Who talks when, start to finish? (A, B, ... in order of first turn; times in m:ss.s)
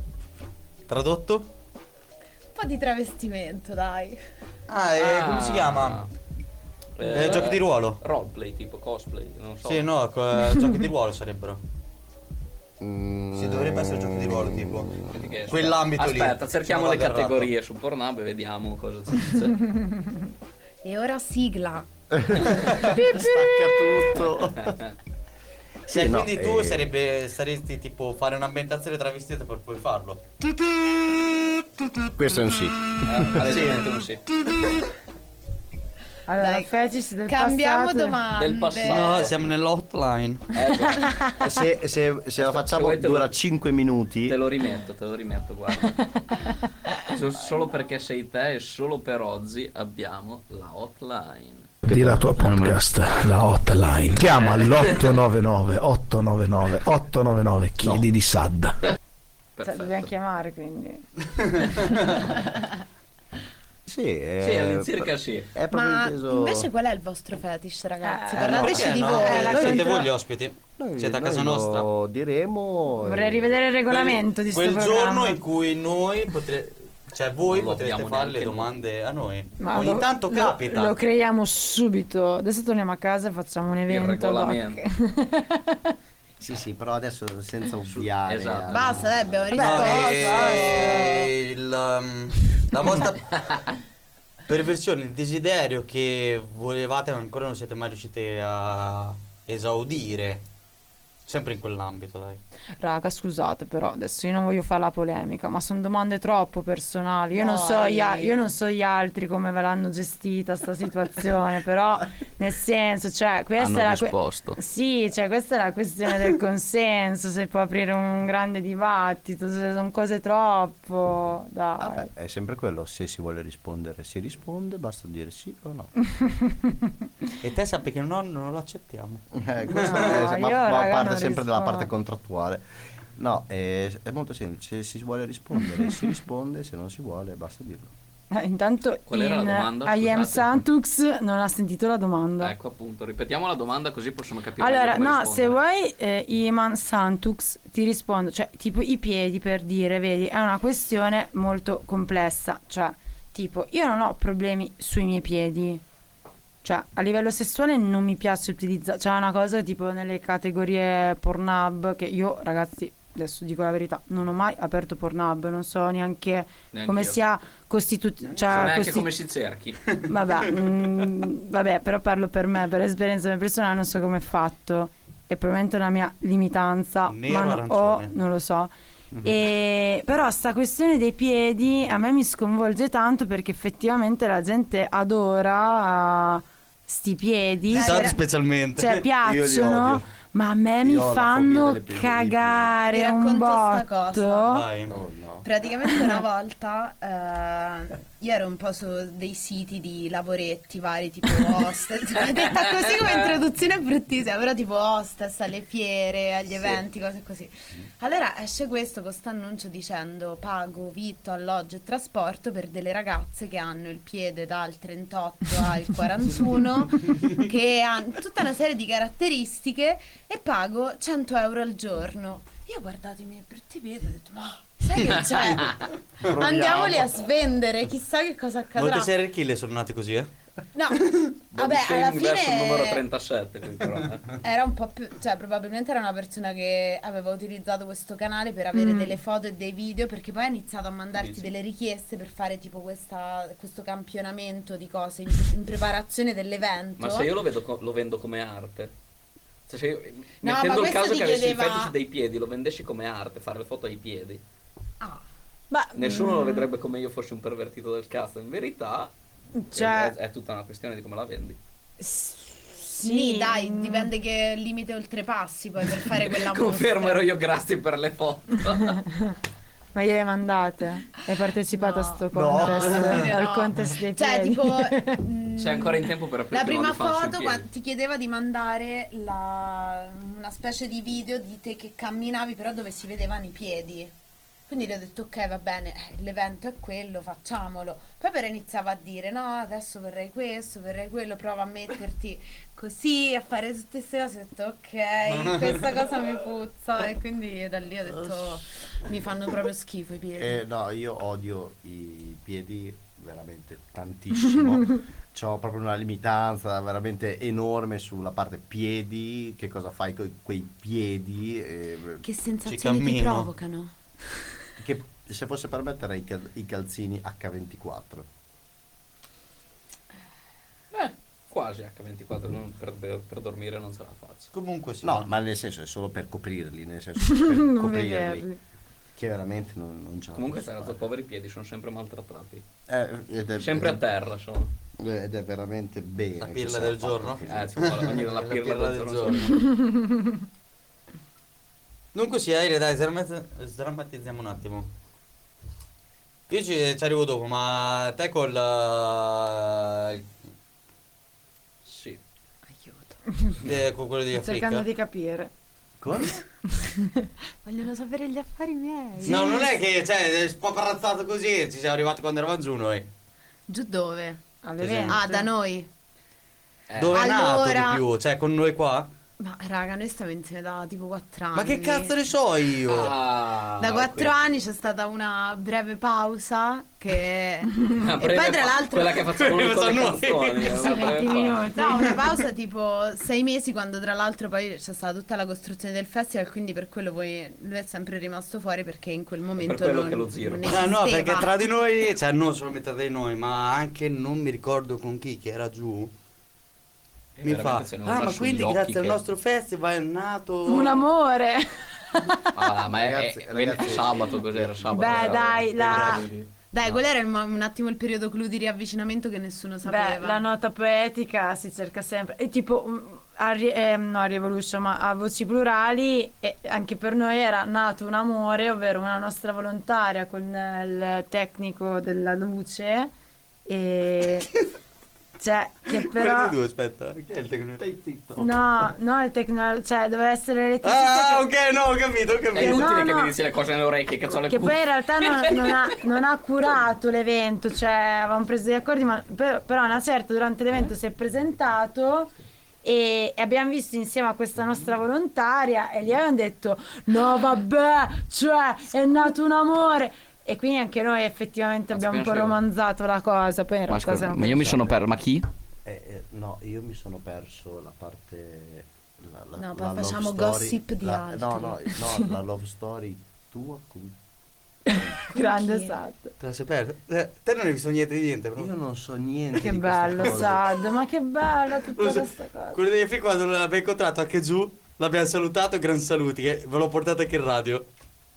0:00.9-0:01.5 A
0:02.5-0:04.2 B
0:04.7-0:06.0 A
0:05.0-0:06.1 C
0:07.0-0:09.9 C
0:07.0-0:08.0 A
0:09.6-0:11.6 A
0:12.8-0:15.2 D
0:13.3-0:15.0 A
0:15.1-0:19.6 C
0:15.5-0:17.5 A
0:20.8-0:21.9 B
0:22.1-0:24.8 D
0:22.5-0:24.0 B
0:24.2-0:24.9 C
0:25.9-0:26.9 D
0:25.9-0:30.2 A
0:32.0-0:34.0 D
0:33.0-0:34.4 C
0:36.3-0:38.2 E
0:36.4-0:39.3 B
0:38.4-0:39.4 C
0:38.9-0:40.6 A
0:40.5-0:41.2 C
0:41.0-0:41.3 E
0:41.4-0:44.4 D
0:42.4-0:43.3 C
0:44.3-0:46.3 C
0:47.0-0:51.7 C
0:51.9-0:58.9 F
0:52.5-0:52.8 D
0:54.5-0:55.0 C
0:59.6-1:00.1 C
0:59.6-1:01.1 E
1:01.4-1:02.1 A
1:03.9-1:06.7 D
1:04.4-1:05.5 C
1:05.7-1:10.0 B
1:08.0-1:10.1 E
1:08.4-1:08.9 D
1:08.4-1:11.9 A
1:10.8-1:13.6 D
1:13.0-1:15.4 E
1:13.9-1:20.9 A
1:17.4-1:18.7 C
1:19.6-1:25.9 E
1:23.9-1:24.8 C
1:26.4-1:29.5 D
1:27.9-1:29.1 C
1:28.7-1:31.3 B
1:29.5-1:33.3 A
1:29.5-1:31.1 E
1:34.5-1:40.4 A
1:41.3-1:42.4 A
1:42.8-2:02.1 E
1:47.4-1:48.4 B
1:53.6-1:54.6 C
2:01.8-2:05.9 D
2:06.2-2:06.8 E
2:07.4-2:10.2 A
2:09.3-2:12.6 D
2:09.7-2:11.9 E
2:13.2-2:17.9 D
2:18.3-2:22.5 E
2:19.1-2:20.6 C
2:22.4-2:25.6 C
2:24.6-2:35.8 E
2:36.6-2:49.1 E
2:46.7-2:47.2 C
2:48.4-2:48.7 A
2:48.5-2:49.8 C
2:50.0-2:50.6 A
2:50.1-2:58.7 E
2:57.1-2:58.1 A
2:59.2-3:08.2 E
3:07.7-3:08.2 B
3:07.7-3:09.0 A
3:08.8-3:14.7 E
3:09.2-3:10.1 D
3:10.8-3:12.8 D
3:12.9-3:14.5 B
3:14.5-3:15.0 A
3:14.9-3:15.5 D
3:15.4-3:49.1 B
3:16.0-3:16.2 E
3:45.4-3:45.6 C
3:46.2-3:47.0 A
3:46.4-3:46.9 D
3:48.8-3:50.3 A
3:50.7-3:53.0 B
3:51.5-3:54.4 C
3:54.4-4:07.3 B
3:58.7-3:59.2 E
4:01.2-4:01.5 C
4:07.0-4:08.9 C
4:09.7-4:14.4 C
4:10.4-4:11.9 B
4:15.7-4:16.7 E
4:16.0-4:19.1 C
4:19.6-4:20.1 E
4:19.7-4:21.6 C
4:22.0-4:24.1 E
4:23.0-4:27.3 B
4:26.1-4:29.0 C
4:28.7-4:29.4 E
4:30.0-4:35.2 E
4:31.7-4:44.2 B
4:32.3-4:33.3 D
4:35.6-4:37.7 C
4:44.7-5:00.6 B
4:58.2-4:58.6 D
5:00.4-5:12.2 D
5:12.2-5:13.9 B
5:12.7-5:13.5 A
5:14.8-5:18.3 D
5:20.9-5:24.5 C
5:24.5-5:25.3 A
5:25.0-5:28.5 D
5:27.2-5:28.6 E
5:29.2-5:31.0 D
5:30.4-5:32.6 C
5:32.9-5:34.0 D
5:33.6-5:34.7 C
5:35.0-5:38.5 D
5:36.4-5:39.7 A
5:37.5-5:39.5 C
5:39.8-5:40.2 E
5:42.1-5:44.9 A
5:46.5-5:50.3 A
5:51.9-5:52.2 C
5:52.8-5:53.2 B
5:53.6-5:54.9 A
5:54.3-5:55.5 E
5:56.0-5:56.4 D
5:56.8-5:57.3 E
5:57.6-5:59.7 B
5:59.2-6:03.1 A
5:59.2-5:59.6 E
6:03.7-6:04.4 B
6:04.6-6:05.5 E
6:04.8-6:05.2 A
6:05.1-6:05.9 B
6:06.9-6:07.3 C
6:07.0-6:09.1 A
6:07.1-6:08.0 B
6:09.4-6:12.2 B
6:11.5-6:13.1 A
6:12.9-6:14.3 C
6:13.7-6:19.2 B
6:18.0-6:21.6 C
6:19.2-6:21.1 A
6:20.8-6:22.3 E
6:21.6-6:31.5 B
6:29.6-6:30.8 C
6:30.7-6:36.1 A
6:37.4-6:39.2 C
6:37.4-6:41.0 A
6:40.7-6:42.6 E
6:42.5-6:46.5 C
6:42.9-6:45.7 D
6:44.9-6:46.2 E
6:45.8-6:46.2 A
6:46.7-6:50.4 B
6:49.8-7:03.1 E
7:03.7-7:04.5 E
7:05.4-7:06.6 E
7:05.9-7:07.8 A
7:07.8-7:08.5 D
7:08.4-7:11.5 E
7:10.8-7:12.9 A
7:12.5-7:15.9 C
7:12.6-7:13.4 E
7:14.5-7:22.3 E
7:22.8-7:34.9 E
7:31.9-7:32.6 C
7:33.9-7:35.5 C
7:35.8-7:44.2 D
7:39.6-7:42.0 B
7:44.9-7:46.3 E
7:45.4-7:46.0 B
7:46.4-7:48.7 A
7:48.6-7:50.7 D
7:49.6-7:52.8 E
7:52.0-7:57.9 A